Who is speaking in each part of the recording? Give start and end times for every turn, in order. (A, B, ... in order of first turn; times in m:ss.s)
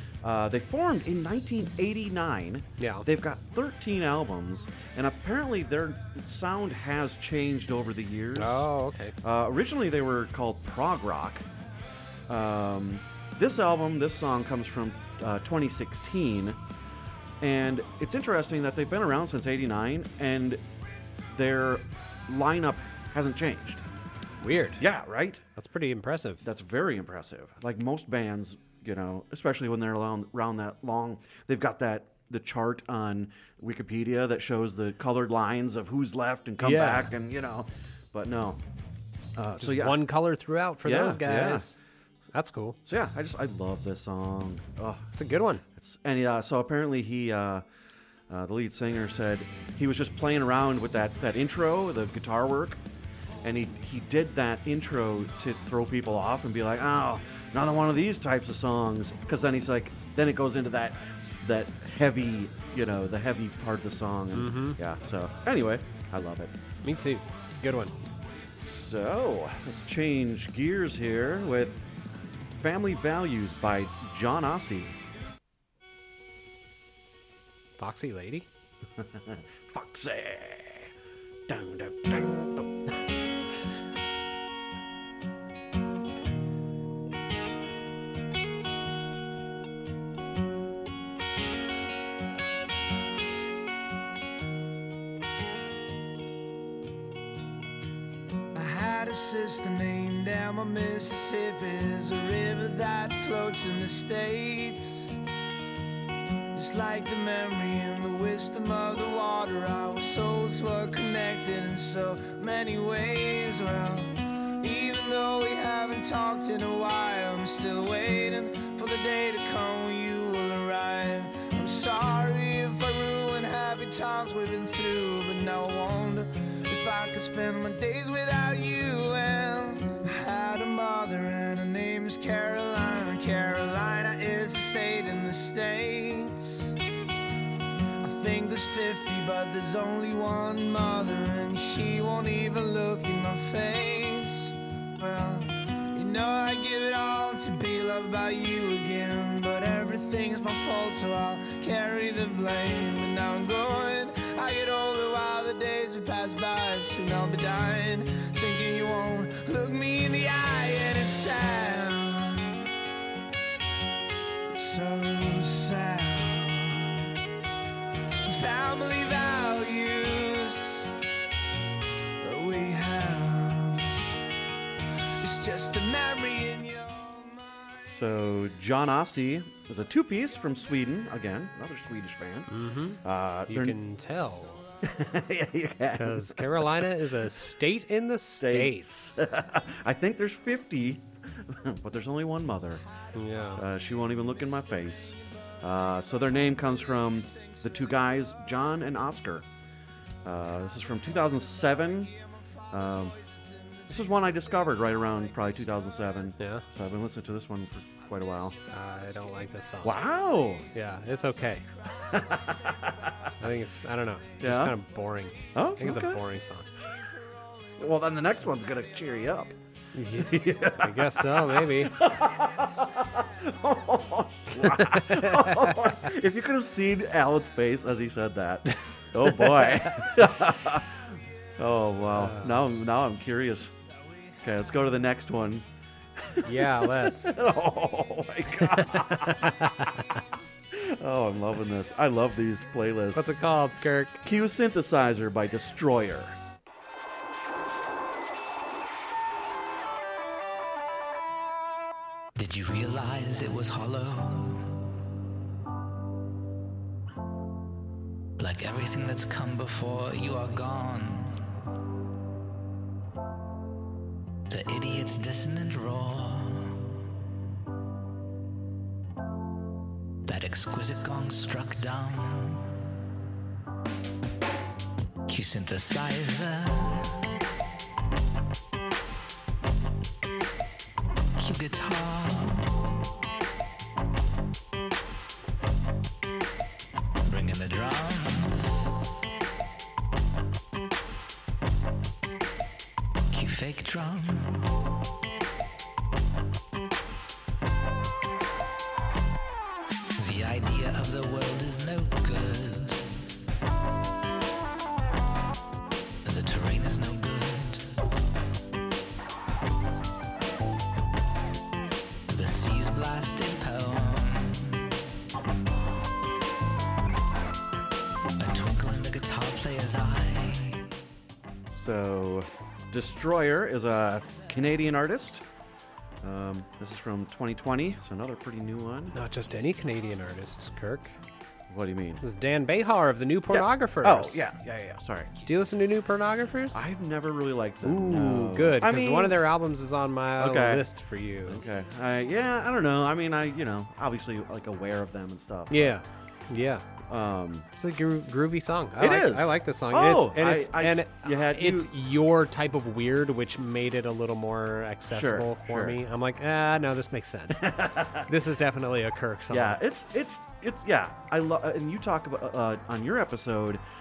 0:00.2-0:08.7 A
0:02.8-0:03.1 B
0:08.4-0:09.2 B
0:09.2-0:11.5 A
0:12.3-0:16.6 A
0:17.4-0:20.6 A
0:21.3-0:23.8 A
0:24.4-0:24.8 B
0:24.8-0:25.4 A
0:25.6-0:26.4 B
0:26.4-0:38.6 A
0:36.6-0:37.1 B
0:39.4-0:40.1 A
0:39.6-0:41.8 B
0:40.8-0:41.7 A
0:42.3-0:42.8 B
0:42.9-0:45.1 A
0:45.2-0:45.6 B
0:45.8-0:47.6 A
0:48.3-0:52.8 A
0:53.4-1:06.5 A
1:04.3-1:04.8 B
1:06.8-1:07.9 B
1:08.6-1:11.8 A
1:12.5-1:15.0 A
1:17.8-1:18.5 B
1:19.0-1:20.9 A
1:21.5-1:22.8 A
1:38.5-1:45.2 C
1:46.5-2:16.7 C
2:18.0-2:42.6 C
2:44.5-2:47.1 C
2:48.3-2:50.9 C
2:52.2-2:54.0 C
2:55.2-2:57.6 C
2:57.8-3:02.5 A
3:02.5-3:04.6 B
3:03.0-3:03.8 A
3:04.8-3:06.9 A
3:05.9-3:09.2 B
3:08.4-3:12.8 A
3:13.2-3:13.6 B
3:13.6-3:19.5 A
3:20.2-3:22.1 A
3:22.7-3:23.2 A
3:23.2-3:23.9 C
3:23.9-3:28.6 A
3:26.4-3:26.7 B
3:28.7-3:30.0 B
3:29.8-3:30.7 A
3:30.7-3:31.6 B
3:32.0-3:33.1 A
3:33.4-3:36.7 B
3:34.4-3:34.8 A
3:35.5-3:36.2 A
3:37.8-3:39.6 A
3:40.0-3:42.0 B
3:40.1-3:51.0 A
3:44.6-3:45.7 B
3:49.4-3:49.6 B
3:51.6-3:53.7 A
3:52.1-3:52.6 B
3:54.4-3:59.7 A
3:56.4-3:57.4 B
3:58.8-4:00.0 B
4:00.7-4:03.3 A
4:03.1-4:04.2 B
4:04.2-4:06.4 A
4:12.4-4:14.7 D
4:18.4-4:21.4 D
4:24.5-4:26.9 D
4:30.3-4:32.8 D
4:35.3-4:37.1 D
4:41.4-4:42.8 D
4:47.2-4:49.0 D
4:53.3-4:54.7 D
5:00.2-5:03.1 D
5:06.2-5:07.9 D
5:12.3-5:14.9 D
5:18.4-5:20.8 D
5:21.7-5:25.4 A
5:26.2-5:29.2 A
5:29.1-5:31.1 B
5:31.7-5:32.2 A
5:32.2-5:34.4 B
5:33.5-5:35.5 A
5:35.5-5:36.8 B
5:36.7-5:39.4 A
5:37.8-5:41.6 B
5:40.4-5:40.9 A
5:41.4-5:46.0 A
5:45.7-5:46.8 B
5:47.1-5:47.7 A
5:47.7-5:59.8 B
5:49.0-5:51.9 A
5:55.1-5:56.0 A
5:57.5-5:58.3 A
5:59.5-6:03.8 A